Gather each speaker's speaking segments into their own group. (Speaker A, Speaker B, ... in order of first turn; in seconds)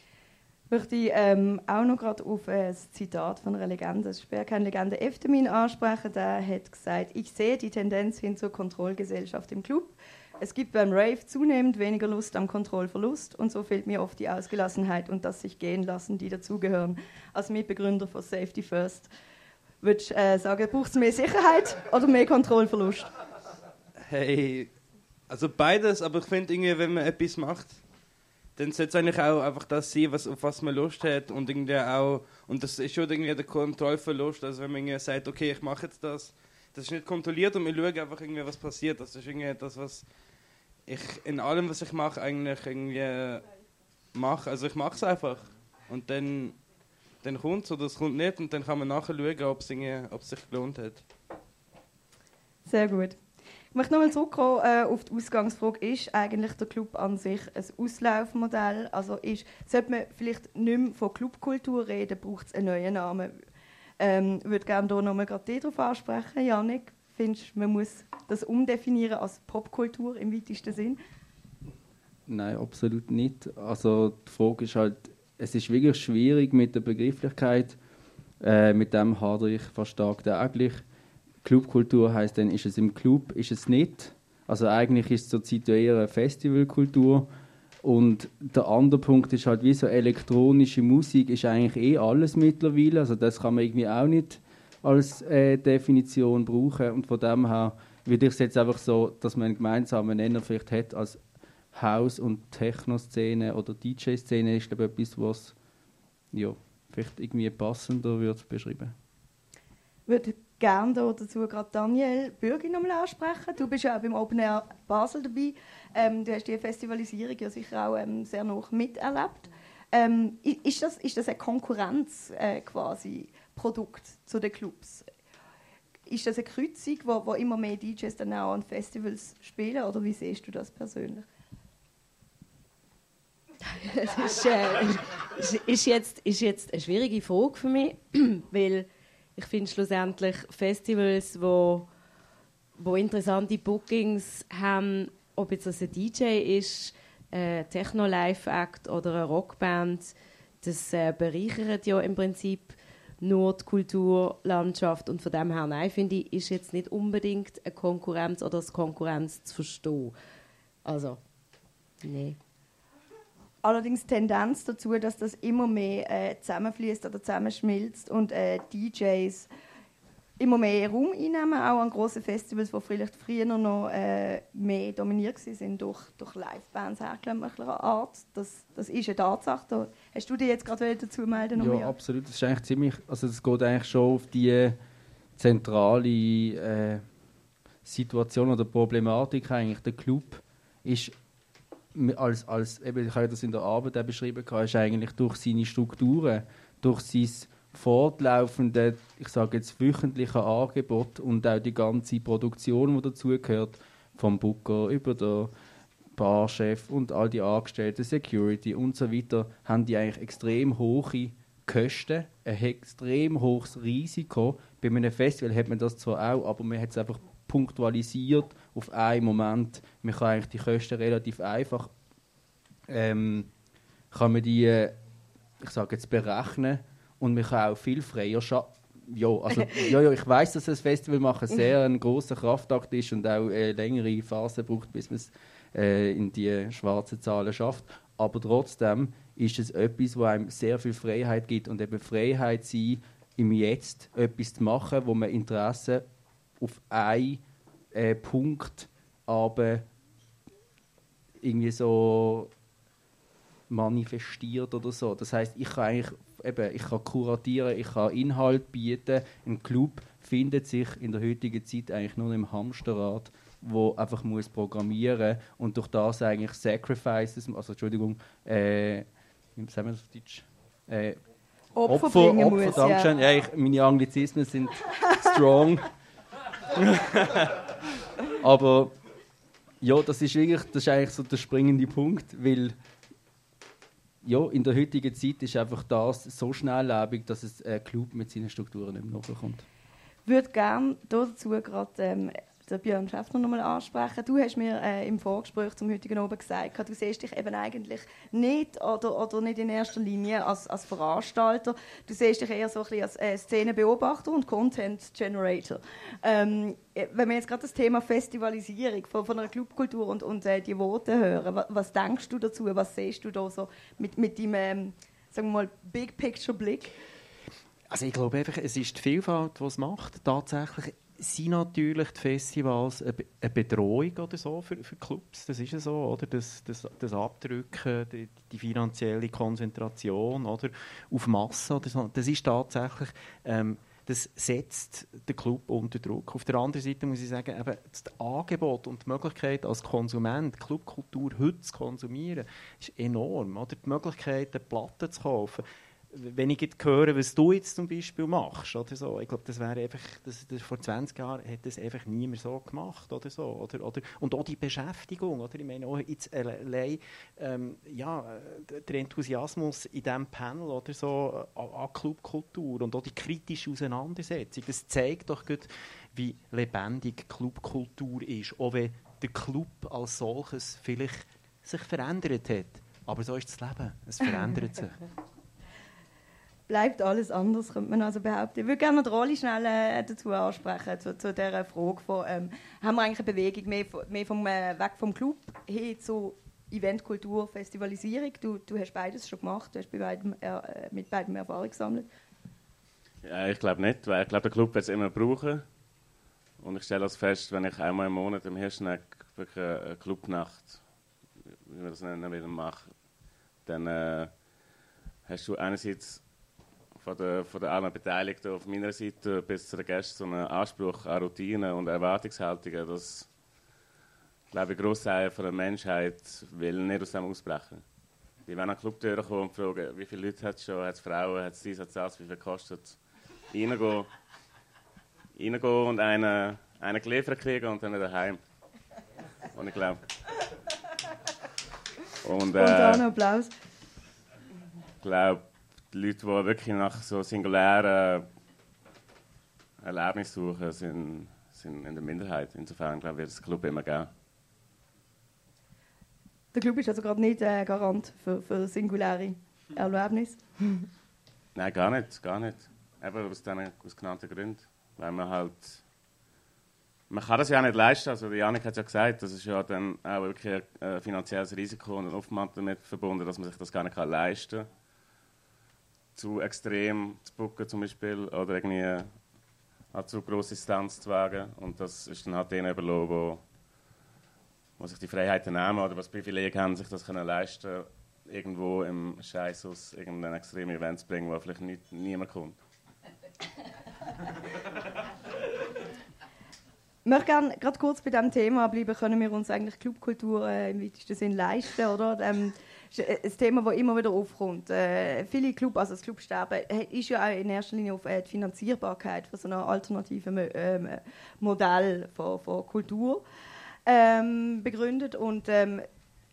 Speaker A: 0.7-19.1, 19.8-23.1, 52.6-53.2, 53.7-63.4, 64.0-71.0, 110.1-125.1, 126.1-131.2, 163.6-169.5, 170.4-181.9, 271.7-273.1, 290.2-316.9, 376.7-392.1, 432.5-433.5, 446.5-450.9, 487.1-503.2, 503.9-505.9
Speaker B: 24.0-24.8, 25.3-27.8, 28.6-40.1, 40.9-43.5, 44.1-46.6, 47.2-51.0
Speaker C: 72.3-77.8, 78.4-80.8, 81.4-87.3, 87.8-101.2, 101.7-105.5, 106.3-108.9, 181.6-184.8, 185.4-187.1, 187.8-191.1, 191.9-205.5, 206.2-221.9, 222.9-223.5, 224.1-224.9, 225.6-246.0, 246.6-249.9, 251.4-252.5, 253.7-271.2, 271.9-275.9, 276.8-277.6, 278.4-278.9, 279.8-282.7, 284.2-289.6
Speaker D: 133.7-141.9, 142.8-160.1, 160.8-161.2, 162.0-162.4
Speaker E: 317.9-375.0
Speaker F: 393.2-395.6, 396.6-400.8, 401.6-402.9, 403.6-404.4, 405.2-406.2, 406.9-413.3, 414.5-417.8, 418.4-423.0, 423.5-424.1, 425.4-428.4, 429.5-430.0, 432.2-433.1, 435.0-438.3, 439.8-444.1, 451.6-455.8, 457.1-464.7, 466.1-469.1, 469.9-473.4, 474.8-482.6